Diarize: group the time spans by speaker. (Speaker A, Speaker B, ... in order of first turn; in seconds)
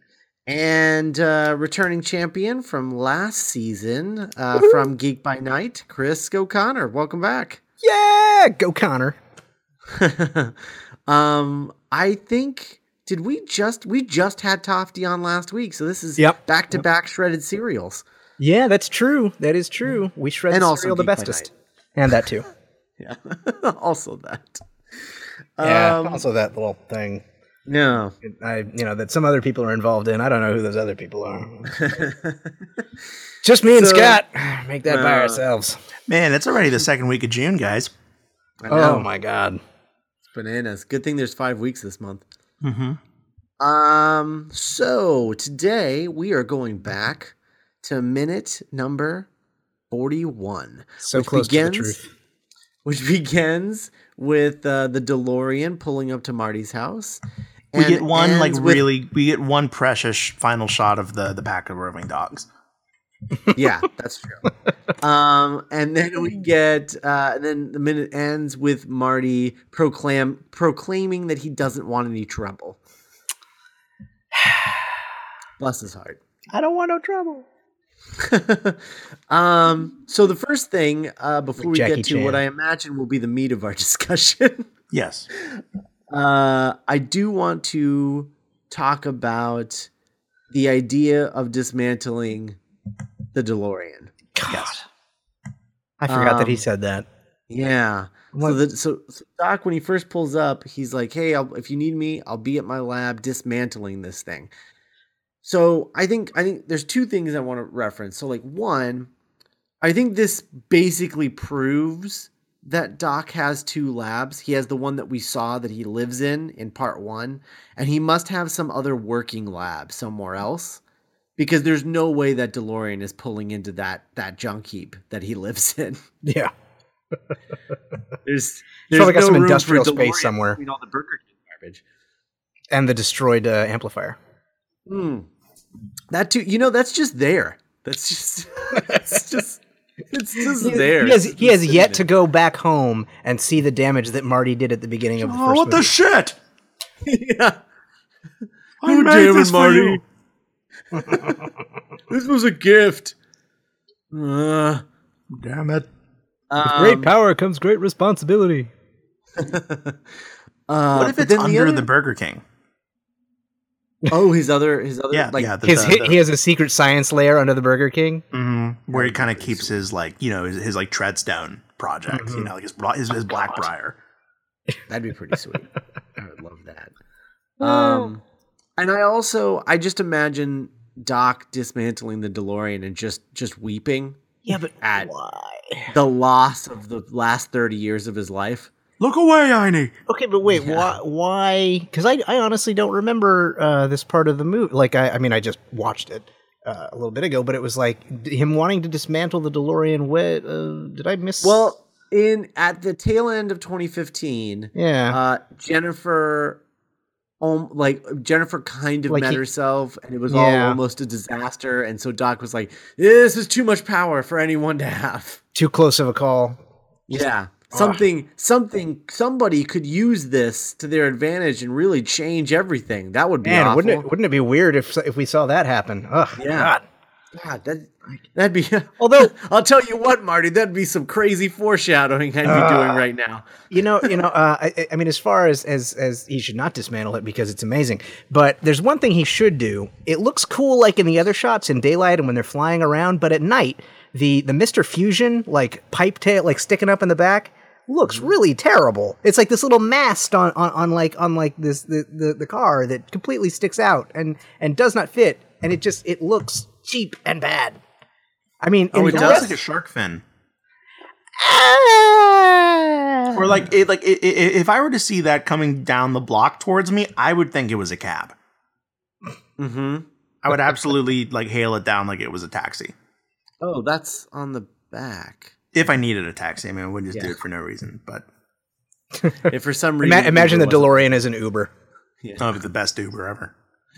Speaker A: 0.5-7.6, 9.9-18.0, 20.5-21.5, 23.0-26.2, 27.6-28.1, 31.7-32.5, 33.7-34.2, 34.9-35.4, 38.6-39.1, 40.3-42.2, 43.6-49.3, 49.9-52.0, 52.8-57.2, 57.7-58.9, 63.5-64.5, 65.0-72.8, 75.6-76.2, 78.2-84.7, 86.1-89.9, 90.5-92.6, 93.3-94.1, 96.1-96.6, 97.5-104.5, 105.4-109.1, 109.8-120.8, 121.4-126.0, 128.2-131.8, 134.9-135.3, 136.1-142.0, 147.0-147.6, 148.8-150.0, 150.9-151.4, 152.1-153.2, 154.1-154.8, 156.5-157.1, 159.4-160.0, 160.7-161.9, 164.1-165.6, 168.9-169.7, 174.9-176.9, 177.6-178.2, 178.8-184.2, 184.8-185.1, 185.9-188.7, 201.4-206.6, 207.4-215.4, 217.1-224.1, 226.4-226.7, 227.3-234.1, 258.9-259.5, 269.6-270.1, 273.6-275.5, 279.4-281.1, 282.2-282.6
Speaker B: 7.8-9.2, 18.4-22.5, 25.6-27.2, 28.2-31.8, 33.4-35.8, 38.7-39.6, 51.0-52.1, 81.6-82.4, 94.3-94.8, 96.0-97.0, 126.2-126.5, 128.9-130.6, 132.7-134.2, 140.6-145.9, 156.6-158.7, 165.6-168.2, 172.1-172.5, 177.6-178.1, 184.4-185.9, 190.1-201.6, 204.7-205.2, 209.1-209.4, 210.3-210.8, 215.5-216.6, 217.7-218.0, 223.4-226.8, 229.0-229.3, 232.4-233.0, 233.7-257.8, 258.6-259.6, 261.4-263.6, 280.0-281.7
Speaker C: 36.1-37.9, 42.6-43.0, 57.8-62.5, 76.5-77.4, 84.9-85.3, 94.5-94.7, 145.2-146.3, 148.8-150.0, 155.4-155.9, 160.9-162.4, 165.1-166.2, 168.3-173.9, 189.0-189.9, 259.0-260.2, 263.3-268.3, 270.4-272.9, 275.7-278.2, 282.4-283.5